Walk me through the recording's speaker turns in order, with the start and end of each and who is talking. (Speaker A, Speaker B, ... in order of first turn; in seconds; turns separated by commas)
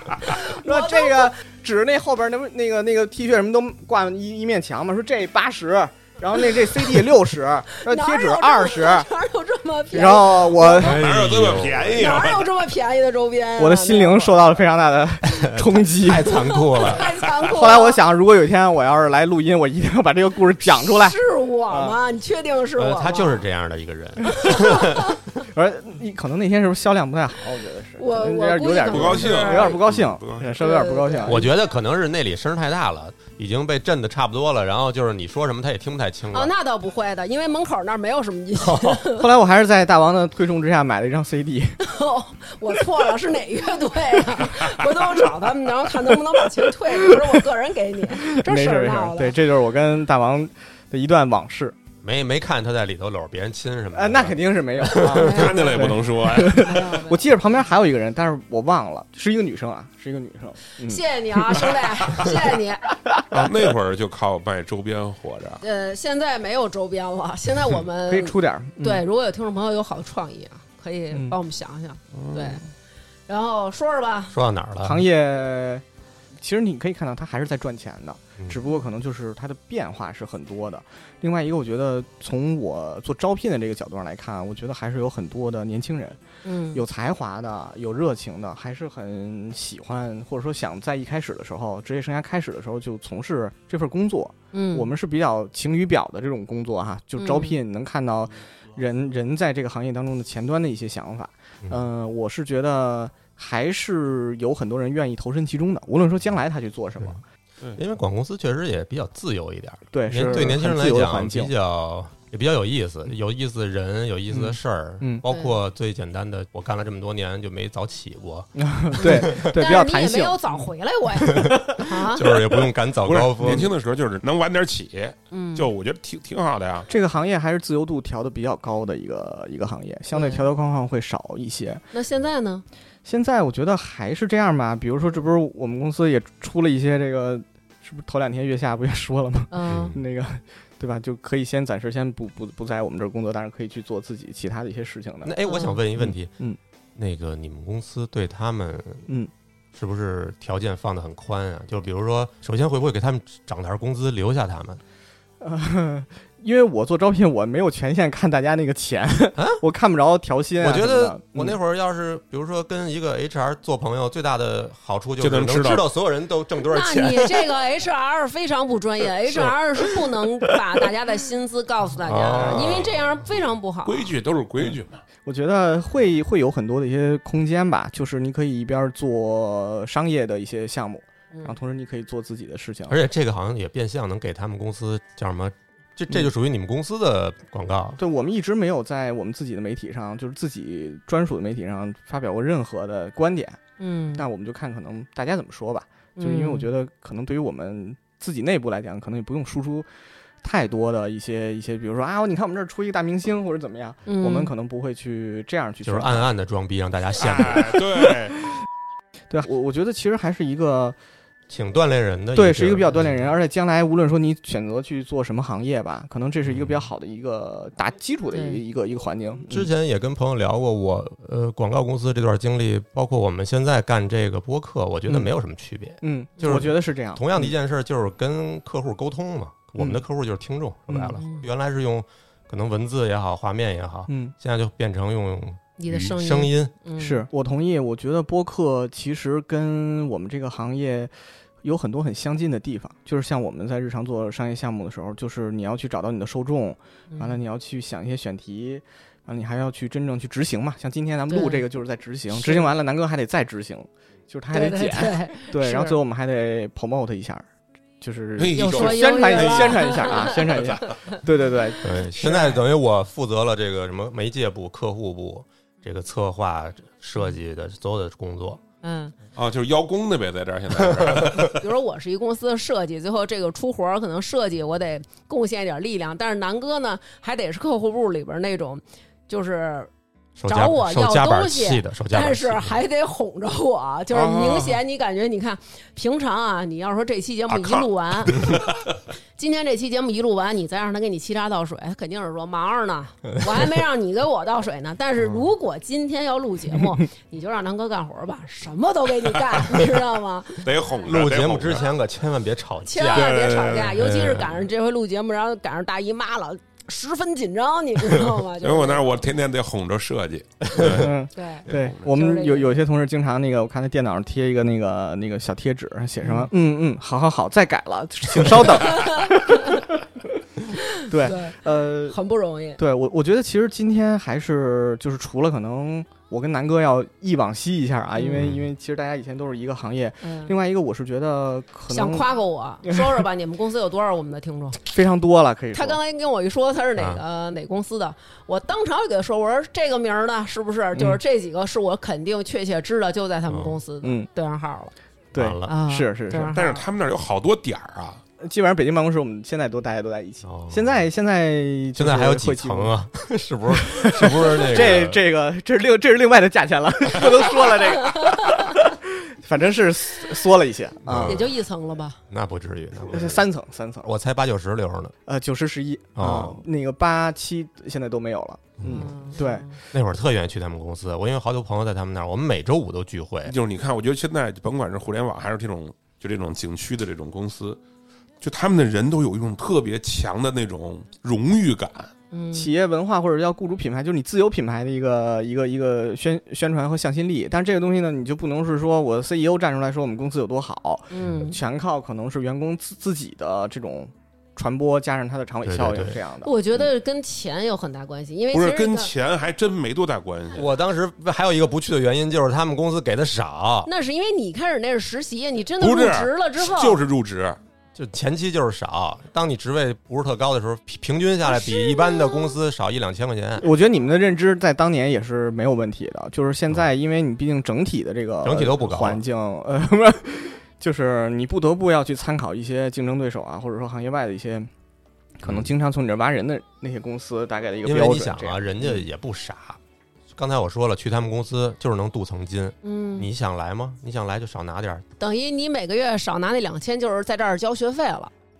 Speaker A: 0.3-9.1, Speaker B: 0.3-1.3, Speaker B: 7.8-11.0, Speaker A: 9.9-11.0, Speaker C: 10.7-12.2, Speaker D: 10.8-12.5, Speaker B: 11.9-14.4, Speaker A: 13.6-16.4, Speaker C: 15.3-17.1, Speaker B: 16.2-18.0, Speaker A: 17.5-21.2, Speaker B: 20.7-23.4, Speaker A: 21.7-22.0, Speaker C: 22.8-25.2, Speaker B: 24.4-25.2, Speaker A: 25.4-31.5, Speaker B: 28.0-29.8, Speaker D: 28.9-30.6, Speaker B: 30.6-31.5, Speaker C: 31.2-36.5, Speaker B: 36.3-39.2, Speaker C: 38.6-39.0, Speaker A: 39.1-41.8, Speaker B: 41.8-49.4, Speaker A: 48.2-51.8, Speaker C: 52.0-55.2, Speaker A: 53.9-62.4, Speaker B: 55.0-56.0, Speaker D: 55.1-56.8, Speaker B: 56.5-57.3, Speaker B: 60.8-62.8, Speaker A: 63.1-63.5, Speaker D: 63.3-65.6, Speaker B: 65.6-72.6, Speaker A: 68.0-69.0, Speaker D: 72.1-72.6, Speaker B: 73.3-74.3, Speaker C: 74.3-75.0, Speaker A: 74.8-75.8, Speaker A: 76.4-86.2, Speaker B: 86.4-86.8, Speaker A: 86.7-107.2, Speaker B: 94.5-94.9, Speaker B: 97.2-97.6, Speaker C: 107.7-119.5, Speaker A: 109.9-111.5, Speaker A: 114.3-115.2, Speaker B: 115.2-115.5, Speaker A: 118.6-120.4, Speaker B: 119.0-122.3, Speaker A: 121.2-121.8, Speaker C: 121.3-123.7, Speaker D: 123.0-126.9, Speaker A: 123.4-123.7, Speaker B: 125.3-125.7, Speaker A: 126.9-131.8, Speaker B: 130.1-130.4, Speaker B: 131.9-132.6, Speaker A: 133.0-145.4, Speaker B: 139.5-139.9, Speaker C: 139.7-140.0, Speaker C: 145.2-146.3, Speaker B: 145.4-145.8, Speaker A: 145.9-146.6, Speaker C: 146.9-149.1, Speaker C: 149.7-154.8, Speaker A: 155.4-161.6, Speaker C: 159.4-159.6, Speaker C: 160.6-167.5, Speaker D: 165.2-165.8, Speaker B: 166.7-174.1, Speaker C: 172.0-173.1, Speaker D: 172.5-172.8, Speaker D: 173.8-175.0, Speaker A: 175.2-183.0, Speaker C: 182.9-188.0, Speaker A: 188.0-193.6, Speaker B: 193.8-194.2, Speaker A: 194.1-199.9, Speaker B: 196.2-196.7, Speaker A: 200.4-206.3, Speaker B: 204.1-204.5, Speaker C: 205.8-207.8, Speaker D: 207.2-208.3, Speaker A: 209.3-211.0, Speaker C: 211.5-213.3, Speaker A: 212.3-219.7, Speaker C: 216.4-216.8, Speaker B: 218.3-218.6, Speaker C: 219.5-236.7, Speaker A: 226.0-227.5, Speaker A: 230.9-231.2, Speaker B: 231.2-231.4, Speaker A: 234.1-234.3, Speaker B: 235.8-237.3, Speaker A: 237.0-257.5, Speaker B: 247.1-247.3, Speaker B: 251.3-251.6, Speaker B: 252.3-252.7, Speaker B: 254.5-256.0, Speaker A: 258.0-262.6, Speaker D: 258.4-260.9, Speaker B: 258.5-261.1, Speaker C: 261.8-268.6, Speaker B: 268.8-269.1, Speaker D: 269.4-271.6, Speaker C: 270.9-271.4, Speaker B: 271.5-279.9, Speaker C: 280.4-282.8, Speaker B: 280.5-288.5, Speaker A: 284.1-284.8, Speaker D: 287.5-288.8, Speaker B: 289.4-300.6, Speaker D: 300.6-301.9, Speaker C: 301.1-303.4, Speaker B: 302.9-309.1, Speaker D: 303.1-304.0, Speaker C: 303.9-304.5, Speaker D: 308.6-311.1, Speaker C: 310.7-311.1, Speaker A: 310.9-320.0, Speaker B: 311.3-312.7, Speaker D: 311.7-311.9, Speaker B: 316.2-316.5, Speaker B: 318.9-319.8, Speaker B: 320.7-322.8, Speaker A: 321.1-322.2, Speaker A: 322.8-332.3, Speaker B: 328.1-328.5, Speaker C: 328.4-328.7, Speaker B: 330.2-330.5, Speaker B: 331.9-334.8, Speaker A: 334.8-336.0, Speaker B: 335.7-344.9, Speaker C: 336.9-337.2, Speaker C: 343.5-343.8, Speaker A: 344.0-344.3, Speaker A: 345.3-346.6, Speaker C: 345.3-345.7, Speaker B: 345.6-346.8, Speaker D: 346.5-348.2, Speaker A: 348.4-352.9, Speaker C: 350.4-351.0, Speaker C: 351.9-355.2, Speaker A: 353.8-361.5, Speaker C: 361.0-361.5, Speaker B: 361.2-362.2, Speaker C: 362.3-363.5, Speaker A: 363.1-364.1, Speaker C: 364.0-365.1, Speaker A: 365.2-369.7, Speaker C: 366.1-366.6, Speaker C: 368.8-369.1, Speaker B: 368.8-369.7, Speaker C: 369.9-373.5, Speaker D: 373.4-377.8, Speaker D: 378.4-382.1, Speaker B: 382.3-382.7, Speaker A: 382.5-396.5, Speaker B: 391.1-391.6, Speaker C: 395.6-396.2, Speaker B: 396.4-399.1, Speaker D: 398.5-400.7, Speaker C: 400.5-403.9, Speaker B: 403.9-407.0, Speaker D: 405.8-407.6, Speaker C: 407.9-413.7, Speaker B: 411.6-412.2, Speaker A: 413.6-424.7, Speaker C: 418.4-419.2, Speaker A: 425.4-429.0, Speaker C: 427.8-429.8, Speaker C: 430.3-435.0, Speaker B: 432.8-433.3, Speaker B: 435.2-438.3